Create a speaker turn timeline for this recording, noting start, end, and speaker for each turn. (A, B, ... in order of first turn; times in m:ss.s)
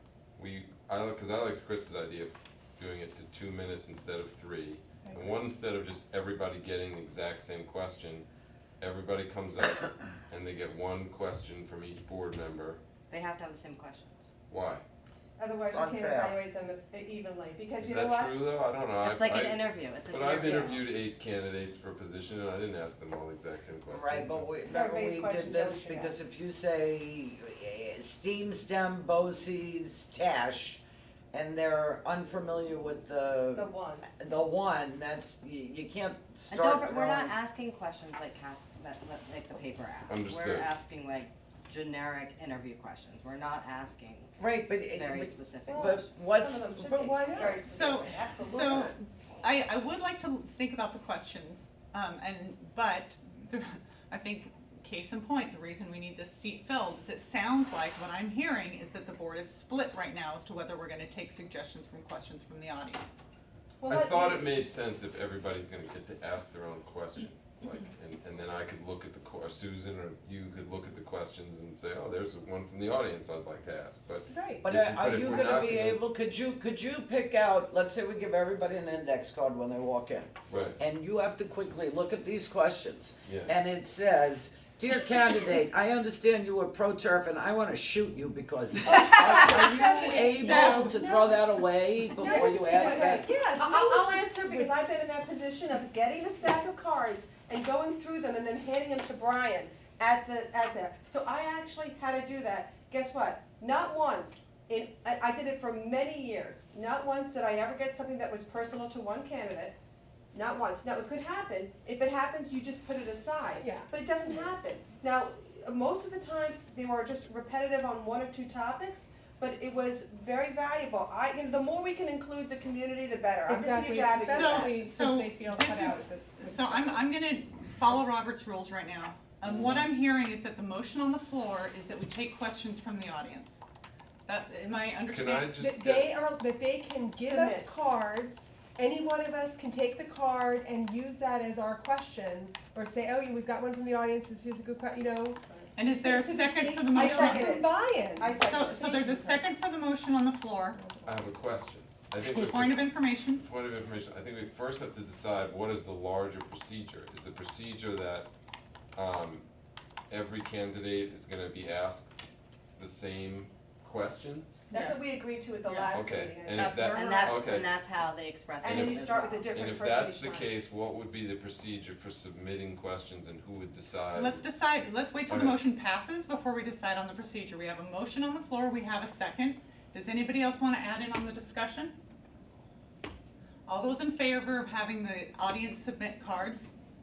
0:00.4-0:08.3 A
0:05.0-0:05.3 B
0:08.8-0:12.8 A
0:13.1-0:14.2 C
0:14.5-0:14.8 A
0:15.4-0:18.3 D
0:15.7-0:16.4 E
0:17.8-0:24.5 A
0:19.0-0:20.8 C
0:23.9-0:30.8 E
0:24.7-0:26.2 D
0:31.3-0:37.3 E
0:33.5-0:34.1 D
0:36.5-0:44.3 C
0:40.1-0:40.7 A
0:44.4-0:46.9 E
0:44.9-0:46.2 C
0:45.7-0:48.9 D
0:46.8-0:47.8 B
0:47.6-1:03.2 F
1:03.8-1:04.5 D
1:03.8-1:16.0 A
1:14.3-1:14.7 B
1:14.6-1:33.3 E
1:20.5-1:20.8 A
1:23.2-1:23.5 A
1:28.9-1:34.8 B
1:29.0-1:29.6 F
1:30.3-1:30.9 F
1:32.2-1:49.8 D
1:50.3-2:04.9 D
1:53.6-1:54.5 B
2:03.4-2:07.1 B
2:04.2-2:13.6 F
2:14.2-2:15.5 F
2:15.1-2:16.1 A
2:15.5-2:29.5 B
2:17.2-2:17.7 D
2:25.8-2:27.6 F
2:26.9-2:28.8 D
2:28.4-2:30.8 F
2:30.7-2:31.2 B
2:31.0-2:38.3 A
2:32.3-2:33.4 F
2:38.9-2:39.4 A
2:40.1-2:42.1 A
2:42.8-2:44.6 A
2:44.7-2:45.1 F
2:44.7-2:46.8 D
2:45.6-2:46.0 F
2:45.9-2:47.8 A
2:46.5-2:47.6 F
2:46.9-2:49.5 C
2:48.6-2:50.5 D
2:48.6-2:54.4 A
2:54.1-3:01.9 F
2:55.3-2:55.6 A
3:03.7-3:06.7 F